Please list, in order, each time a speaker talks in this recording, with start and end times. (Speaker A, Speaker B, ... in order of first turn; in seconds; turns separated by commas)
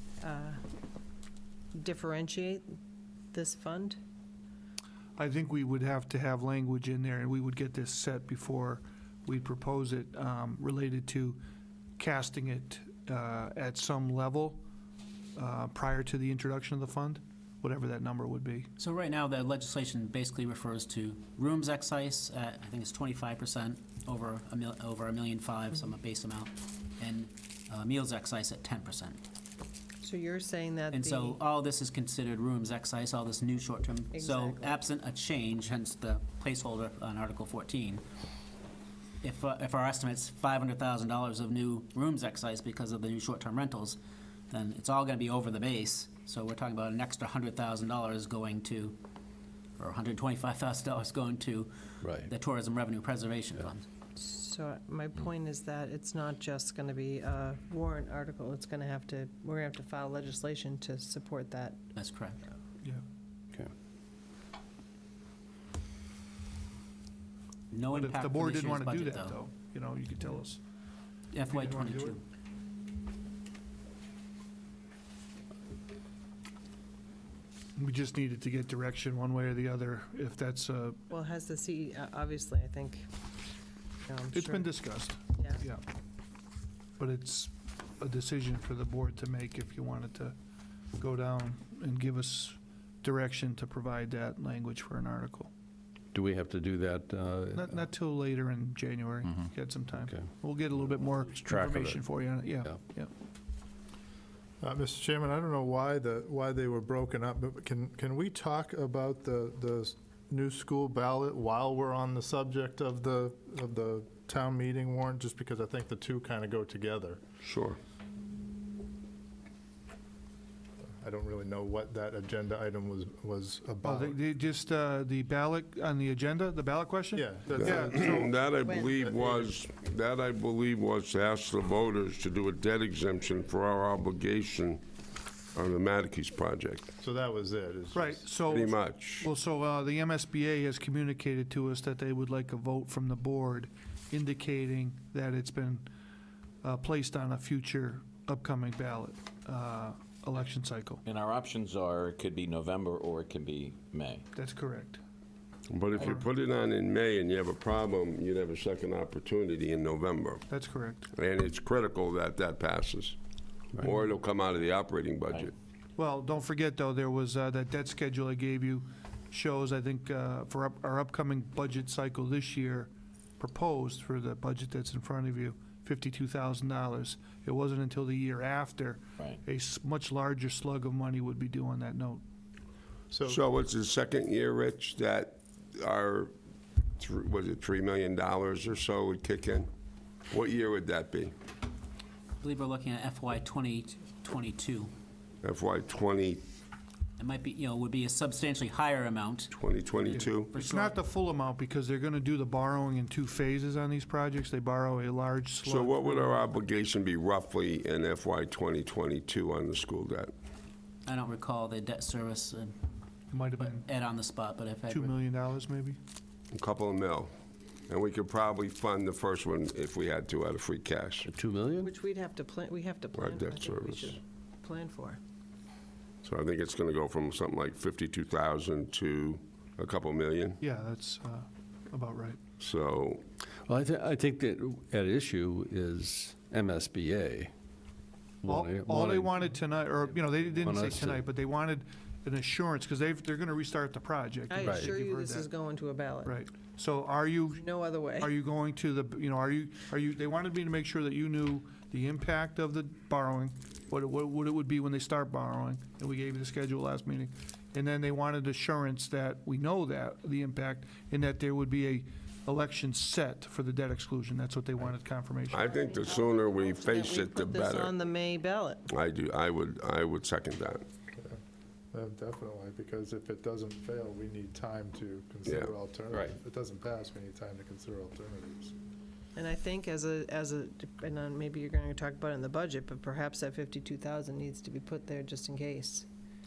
Speaker A: 0.2-0.6, Speaker A: 1.7-2.6, Speaker A: 3.3-4.0, Speaker B: 5.2-11.4, Speaker B: 12.0-14.6, Speaker B: 15.3-18.7, Speaker C: 18.8-29.2, Speaker A: 30.0-31.4, Speaker C: 30.9-38.0, Speaker A: 34.1-34.8, Speaker C: 39.2-44.0, Speaker C: 44.5-49.0, Speaker C: 49.8-53.8, Speaker D: 52.0-52.3, Speaker A: 54.1-61.8, Speaker C: 61.9-62.4, Speaker C: 67.7-69.4, Speaker B: 67.9-70.6, Speaker C: 71.3-72.2, Speaker B: 71.5-72.2, Speaker B: 77.8-81.0, Speaker A: 81.1-83.1, Speaker A: 84.0-85.6, Speaker B: 84.3-85.8, Speaker B: 87.0-90.3, Speaker B: 91.0-95.5, Speaker D: 96.1-97.8, Speaker B: 97.5-103.1, Speaker D: 99.3-100.3, Speaker D: 101.4-102.0, Speaker E: 104.6-117.2, Speaker F: 117.4-117.8, Speaker E: 121.0-124.2, Speaker B: 123.8-128.3, Speaker E: 127.1-128.3, Speaker F: 127.5-134.8, Speaker A: 128.6-129.0, Speaker E: 129.0-129.3, Speaker F: 135.5-136.9, Speaker E: 137.0-138.4, Speaker B: 137.9-145.9, Speaker F: 138.5-139.3, Speaker B: 146.6-151.0, Speaker G: 151.1-154.2, Speaker B: 154.3-155.0, Speaker F: 155.7-160.4, Speaker B: 156.0-156.2, Speaker B: 160.5-161.1, Speaker F: 161.1-163.2, Speaker F: 163.8-165.5, Speaker B: 166.0-182.2, Speaker E: 183.1-183.4, Speaker F: 183.2-186.3, Speaker F: 187.0-189.7, Speaker F: 190.3-191.3, Speaker C: 192.4-194.9, Speaker F: 195.4-196.4, Speaker C: 197.2-200.9, Speaker F: 199.5-200.5, Speaker B: 200.1-206.4, Speaker F: 205.6-210.3, Speaker C: 211.1-212.8, Speaker B: 213.3-213.8, Speaker C: 213.6-215.1, Speaker B: 214.9-216.0, Speaker F: 216.5-217.3, Speaker F: 217.9-221.3, Speaker D: 221.3-221.9, Speaker A: 221.8-225.2, Speaker F: 223.1-224.2, Speaker F: 226.2-230.6, Speaker B: 230.6-232.4, Speaker F: 232.6-233.2, Speaker D: 233.7-237.5, Speaker D: 238.4-239.4, Speaker B: 238.4-245.5, Speaker D: 240.6-241.2, Speaker A: 244.5-246.3, Speaker B: 246.2-265.7, Speaker A: 247.5-248.3, Speaker F: 265.5-268.0, Speaker A: 265.8-268.9, Speaker F: 268.9-270.8, Speaker E: 271.9-278.7, Speaker F: 275.4-275.7, Speaker A: 279.3-286.1